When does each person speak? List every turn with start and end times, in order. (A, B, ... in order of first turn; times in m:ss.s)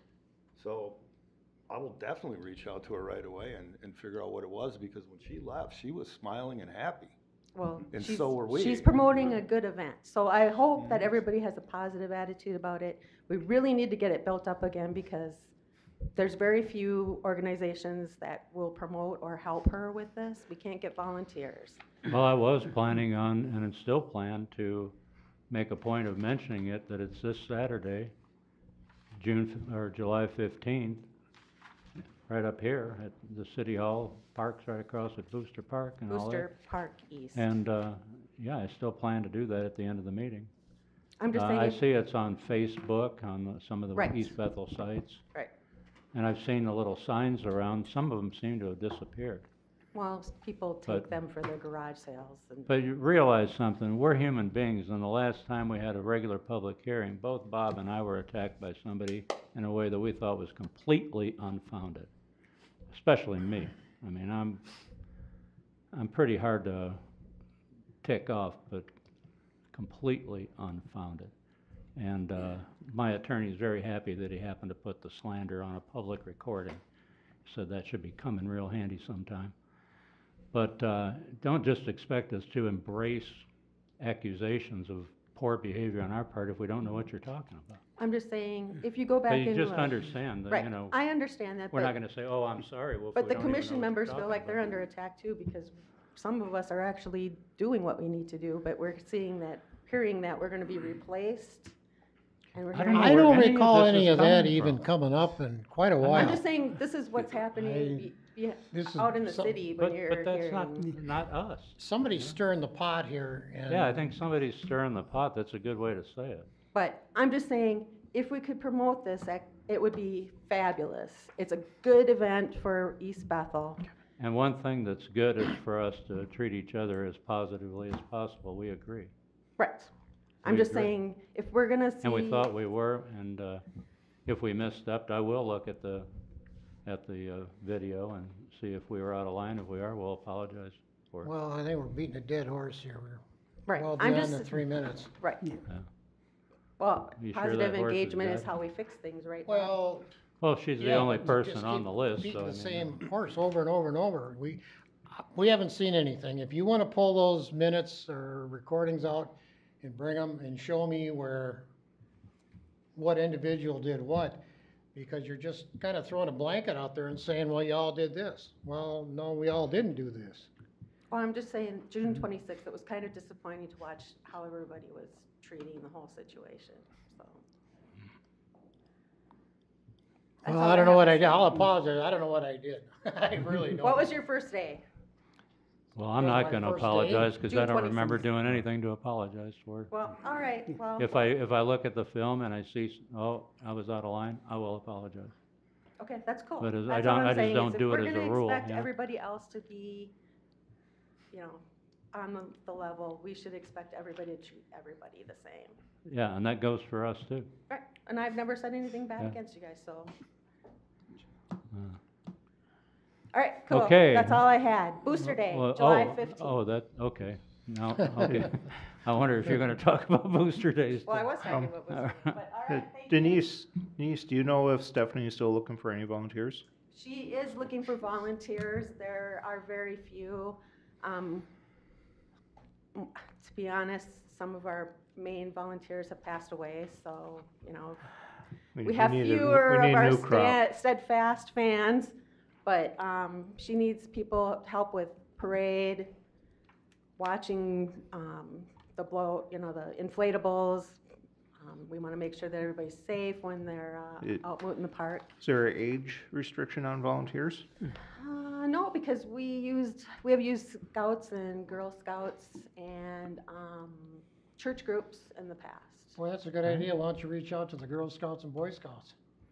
0:00.6-0:01.0 A
0:01.7-0:07.2 A
0:07.5-0:15.5 B
0:07.9-0:09.4 A
0:10.8-0:11.1 A
0:16.1-0:21.8 B
0:22.1-0:25.0 C
0:25.5-0:28.1 C
0:29.1-0:31.1 C
0:32.3-0:36.5 C
0:36.1-0:37.5 B
0:37.3-0:40.5 C
0:41.2-0:41.8 B
0:41.3-0:45.2 C
0:43.9-0:44.3 B
0:46.1-0:49.5 C
0:49.9-0:52.7 B
0:52.7-1:02.1 C
1:02.9-1:04.6 C
1:05.9-1:07.0 C
1:08.0-1:08.9 C
1:09.7-1:11.3 C
1:11.9-1:16.8 C
1:17.4-1:19.5 C
1:20.5-1:23.4 C
1:24.0-1:27.8 C
1:28.0-1:31.9 B
1:29.3-1:31.0 C
1:31.7-1:34.6 C
1:33.1-1:41.7 B
1:42.5-1:43.5 B
1:42.7-1:44.8 C
1:42.9-1:46.4 D
1:46.1-1:50.9 B
1:47.6-1:48.1 D
1:48.7-1:49.6 D
1:49.8-1:52.3 C
1:51.8-1:54.1 D
1:53.7-1:56.5 C
1:56.7-2:03.8 B
2:04.2-2:09.1 C
2:09.6-2:09.9 B
2:10.4-2:12.5 B
2:10.4-2:10.9 C
2:12.0-2:13.6 C
2:14.2-2:16.1 C
2:16.8-2:21.3 C
2:21.2-2:25.1 D
2:23.6-2:24.6 B
2:25.2-2:25.6 B
2:26.8-2:29.7 B
2:27.2-2:28.5 C
2:29.4-2:30.1 D
2:30.4-2:32.9 C
2:30.8-2:41.6 D
2:42.9-2:44.4 D
2:44.9-2:50.5 D
2:51.1-2:57.4 B
3:00.4-3:04.1 D
3:00.4-3:01.7 B
3:03.8-3:04.8 B
3:05.9-3:09.9 C
3:06.2-3:07.4 D
3:07.4-3:08.2 B
3:09.9-3:11.2 B
3:11.0-3:15.3 C
3:16.0-3:20.1 B
3:16.6-3:18.9 C
3:21.3-3:21.6 B
3:22.1-3:25.7 B
3:26.0-3:27.5 C
3:27.7-3:30.1 B
3:31.7-3:32.0 C
3:33.3-3:36.5 B
3:33.7-3:34.4 C
3:35.2-3:42.4 C
3:41.0-3:43.4 B
3:42.7-3:46.6 E
3:46.9-3:51.5 B
3:52.9-3:58.0 B
3:58.8-4:00.6 E
3:58.8-4:02.1 B
4:02.6-4:06.1 B
4:07.2-4:11.0 B
4:11.6-4:15.3 B
4:15.4-4:17.7 E
4:18.1-4:26.2 B
4:26.2-4:29.1 D